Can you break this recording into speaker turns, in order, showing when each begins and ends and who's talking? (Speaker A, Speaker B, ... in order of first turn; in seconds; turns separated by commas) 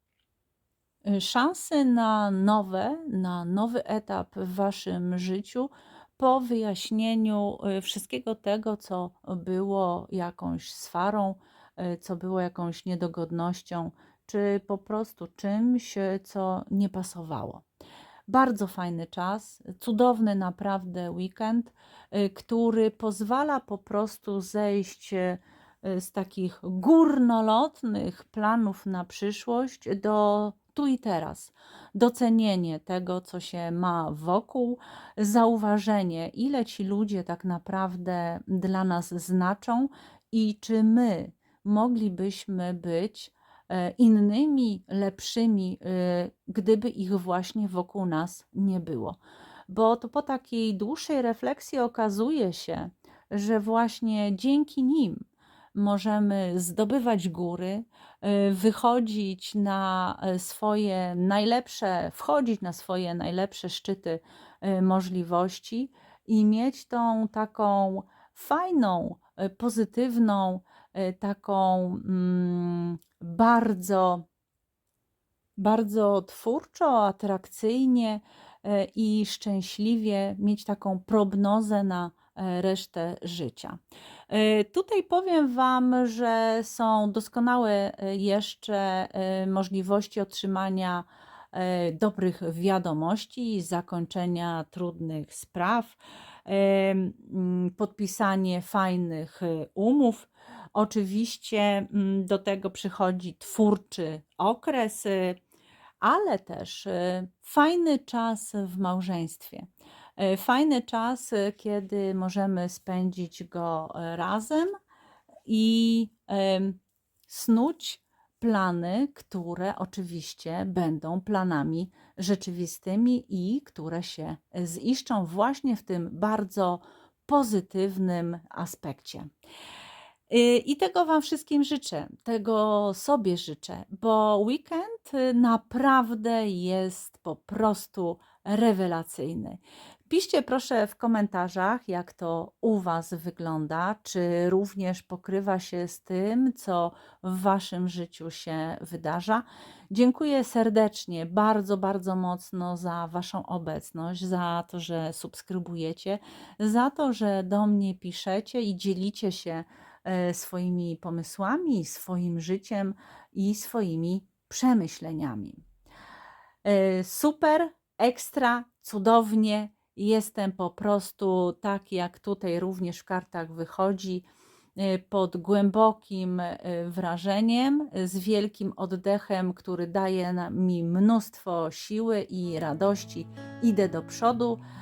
Speaker A: 1.1-17.6, Speaker A: 18.3-49.2, Speaker A: 49.7-55.2, Speaker A: 55.8-74.3, Speaker A: 75.6-83.8, Speaker A: 84.3-105.4, Speaker A: 106.0-114.7, Speaker A: 115.5-129.3, Speaker A: 130.3-165.6, Speaker A: 166.6-174.2, Speaker A: 174.8-184.6